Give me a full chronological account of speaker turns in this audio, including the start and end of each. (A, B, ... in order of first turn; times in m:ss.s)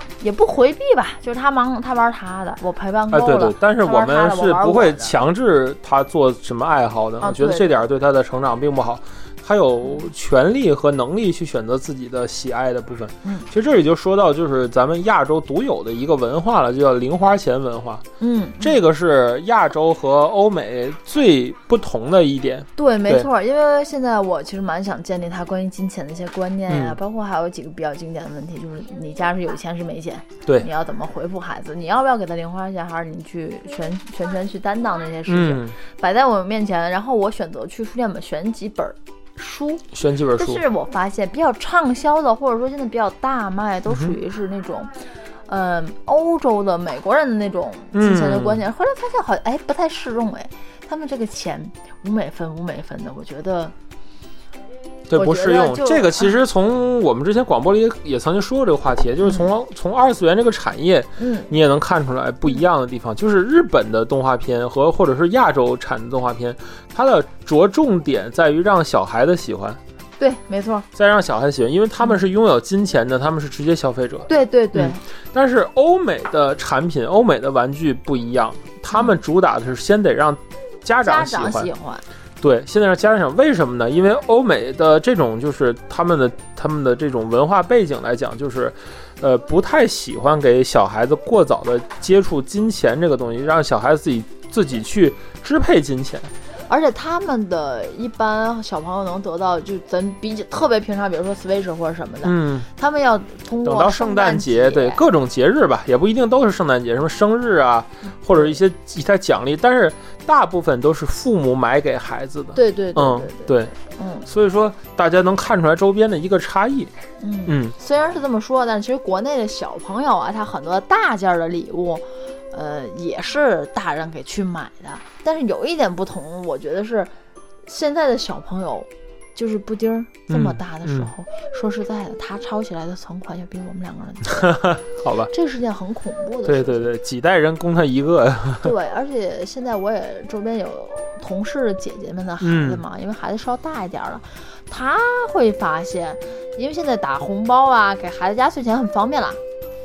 0:00.2-0:05.2 A
0:03.1-0:18.0 B
0:07.2-0:07.7 A
0:13.2-0:13.5 A
0:18.2-0:18.8 A
0:18.6-0:23.3 B
0:22.8-0:53.7 A
0:26.7-0:27.0 B
0:35.2-0:35.8 B
0:39.9-0:40.6 B
0:43.9-0:44.2 B
0:47.9-0:48.7 B
0:55.1-1:09.8 B
0:55.1-0:56.4 A
0:59.2-0:59.5 A
1:01.2-1:01.5 A
1:10.2-1:10.9 A
1:10.9-1:21.7 B
1:14.3-1:15.0 A
1:21.0-1:22.0 A
1:22.4-1:36.3 B
1:36.7-1:45.1 A
1:42.2-1:42.7 B
1:43.6-1:53.7 B
1:48.3-1:48.5 A
1:52.5-1:54.3 A
1:54.2-1:56.9 B
1:57.2-2:14.7 A
1:57.4-1:57.7 B
2:10.3-2:11.1 B
2:14.8-2:15.3 B
2:15.3-2:16.9 A
2:16.4-2:18.7 B
2:18.6-2:29.4 A
2:22.4-2:22.8 B